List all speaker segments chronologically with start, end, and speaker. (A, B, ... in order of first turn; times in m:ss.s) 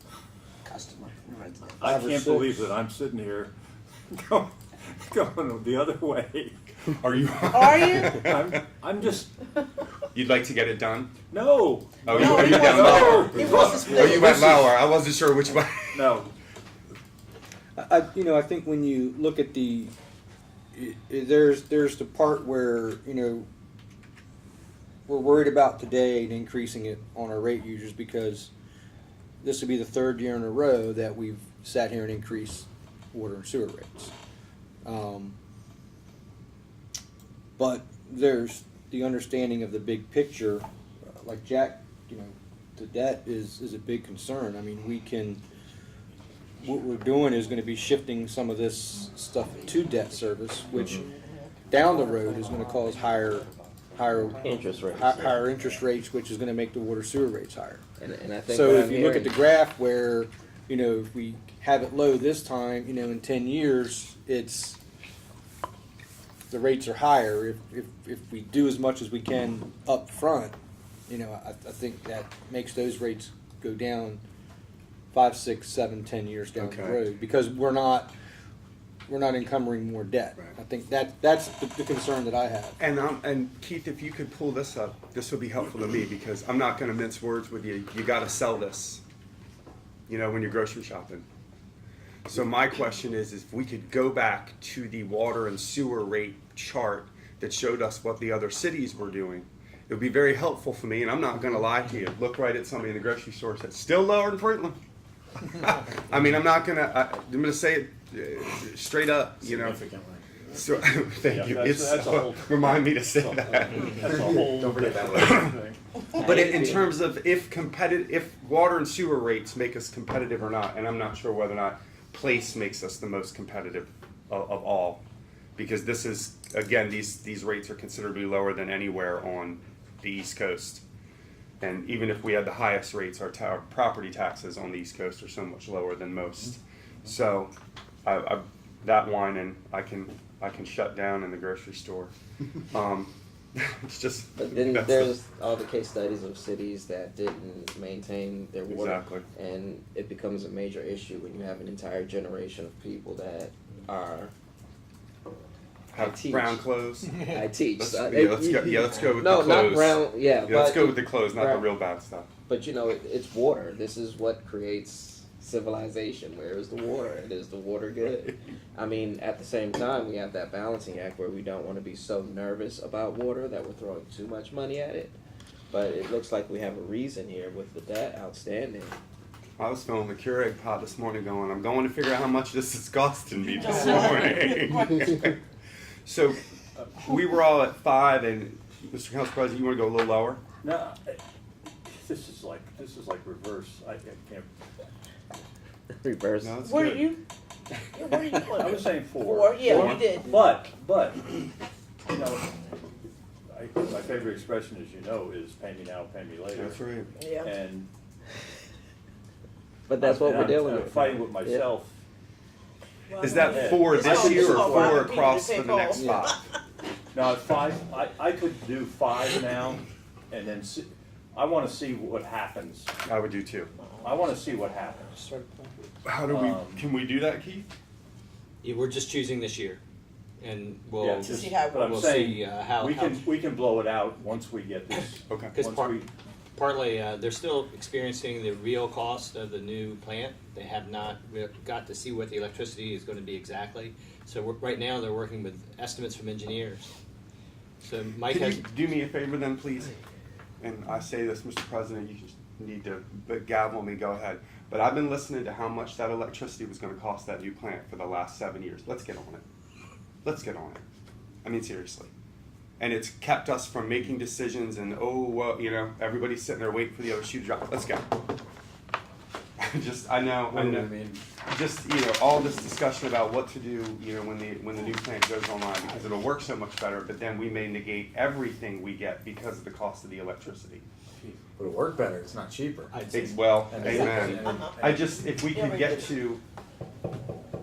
0:00.6-0:01.9 A
0:01.8-0:03.5 B
0:01.8-0:02.6 C
0:04.1-0:06.7 B
0:06.9-0:08.6 D
0:07.5-0:08.2 A
0:08.2-0:09.3 B
0:10.1-0:11.1 D
0:11.3-0:14.6 B
0:12.0-0:16.2 D
0:12.1-0:14.4 A
0:15.9-0:16.3 B
0:17.8-0:19.9 C
0:20.7-0:23.5 C
0:25.0-0:28.5 C
0:29.4-0:34.1 C
0:34.8-0:35.3 C
0:37.6-0:45.4 C
0:46.6-0:51.1 C
0:51.7-0:57.8 C
0:54.4-0:55.6 E
0:58.0-0:59.3 E
0:58.5-1:04.8 C
1:06.5-1:10.5 C
1:11.1-1:14.2 C
1:15.1-1:18.1 C
1:16.6-1:17.0 D
1:19.1-1:22.8 C
1:22.8-1:29.0 D
1:30.1-1:31.2 D
1:32.2-1:44.8 D
1:45.4-1:49.8 D
1:49.4-1:50.4 F
1:50.5-1:54.1 D
1:51.2-1:55.8 B
1:54.0-1:55.3 F
1:54.9-1:55.6 D
1:56.2-1:57.0 E
1:56.2-2:05.0 D
2:05.6-2:10.8 D
2:11.6-2:17.5 D
2:18.0-2:22.1 D
2:22.7-2:25.2 D
2:24.4-2:34.3 E
2:28.7-2:29.2 D
2:35.9-2:36.6 E
2:35.9-2:42.3 D
2:37.2-2:41.7 E
2:42.5-2:55.2 E
2:55.7-2:59.0 E
2:59.6-3:05.4 D
3:03.6-3:05.0 A
3:06.0-3:06.4 D
3:06.9-3:10.4 D
3:10.6-3:11.2 B
3:11.9-3:14.5 B
3:16.0-3:16.7 E
3:16.4-3:17.1 D
3:16.6-3:17.2 A
3:17.9-3:20.3 A
3:18.5-3:21.4 B
3:19.6-3:20.1 D
3:22.1-3:22.6 B
3:23.5-3:26.8 B
3:26.5-3:27.1 D
3:27.2-3:27.5 A
3:27.4-3:27.9 B
3:29.9-3:31.7 E
3:30.0-3:31.9 B
3:33.1-3:36.4 A
3:33.2-3:36.4 D
3:33.4-3:35.1 B
3:37.1-3:42.9 B
3:43.0-3:43.7 D
3:44.0-3:45.2 B
3:46.0-3:47.7 D
3:46.3-3:46.9 B
3:48.6-3:49.8 G
3:50.4-3:53.2 G
3:51.0-3:56.1 B
3:51.3-3:52.0 A
3:55.3-3:55.6 D
3:55.5-3:56.0 G
3:56.6-4:06.9 G
4:07.8-4:08.6 G
4:08.3-4:09.9 D
4:10.6-4:19.4 D
4:20.2-4:20.8 D
4:21.4-4:22.1 D
4:22.8-4:28.1 D
4:29.6-4:40.8 D
4:30.4-4:31.2 F
4:41.2-4:45.5 F
4:42.9-4:44.4 G
4:43.1-4:46.4 D
4:44.4-4:44.8 A
4:45.5-4:46.2 A